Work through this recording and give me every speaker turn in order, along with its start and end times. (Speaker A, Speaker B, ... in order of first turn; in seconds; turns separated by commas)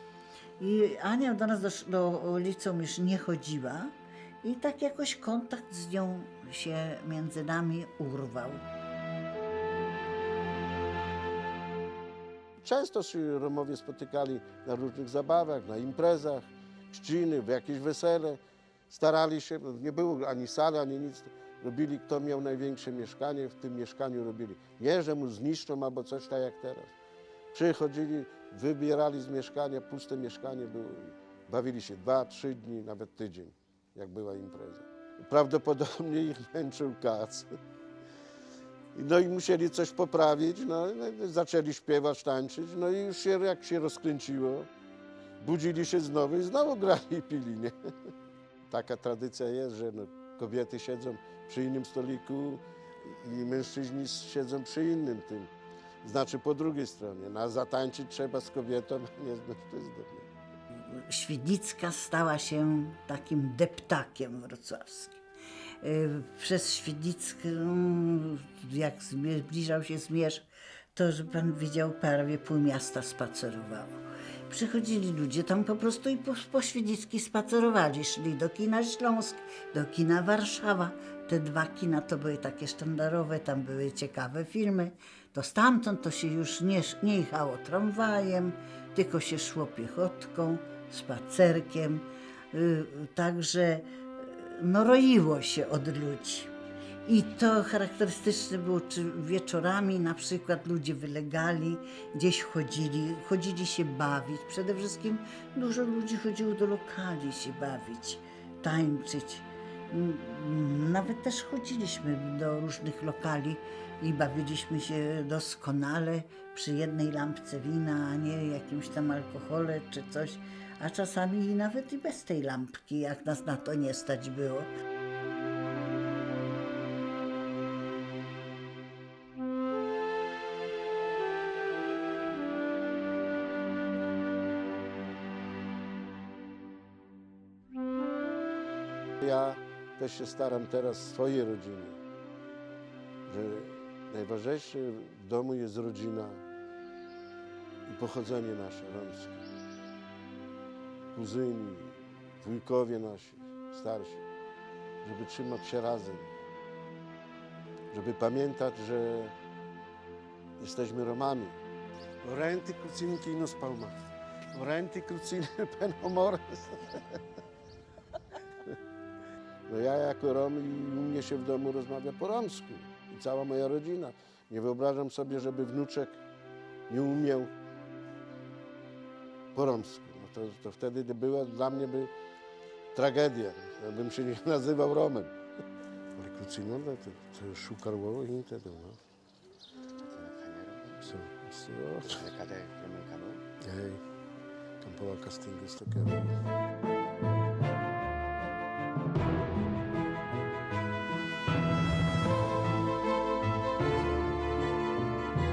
Speaker A: 0.6-8.6, Speaker B: 12.6-26.9, Speaker B: 27.5-37.5, Speaker B: 38.9-44.7, Speaker B: 45.4-47.7, Speaker B: 48.7-55.5, Speaker B: 56.0-60.3, Speaker A: 60.9-65.2, Speaker A: 65.8-96.5, Speaker A: 97.0-124.7, Speaker B: 139.2-142.0, Speaker B: 143.3-146.4, Speaker B: 147.8-149.4, Speaker B: 151.1-154.2, Speaker B: 155.0-156.3, Speaker B: 157.9-159.3, Speaker B: 160.6-161.6, Speaker B: 162.2-163.9, Speaker B: 164.5-167.2, Speaker B: 169.7-176.2, Speaker B: 176.9-177.5, Speaker B: 179.5-182.1, Speaker B: 182.9-185.3, Speaker B: 186.2-189.0, Speaker C: 190.0-191.1, Speaker B: 191.0-192.2, Speaker C: 192.1-193.4, Speaker B: 193.6-194.0, Speaker B: 194.8-196.4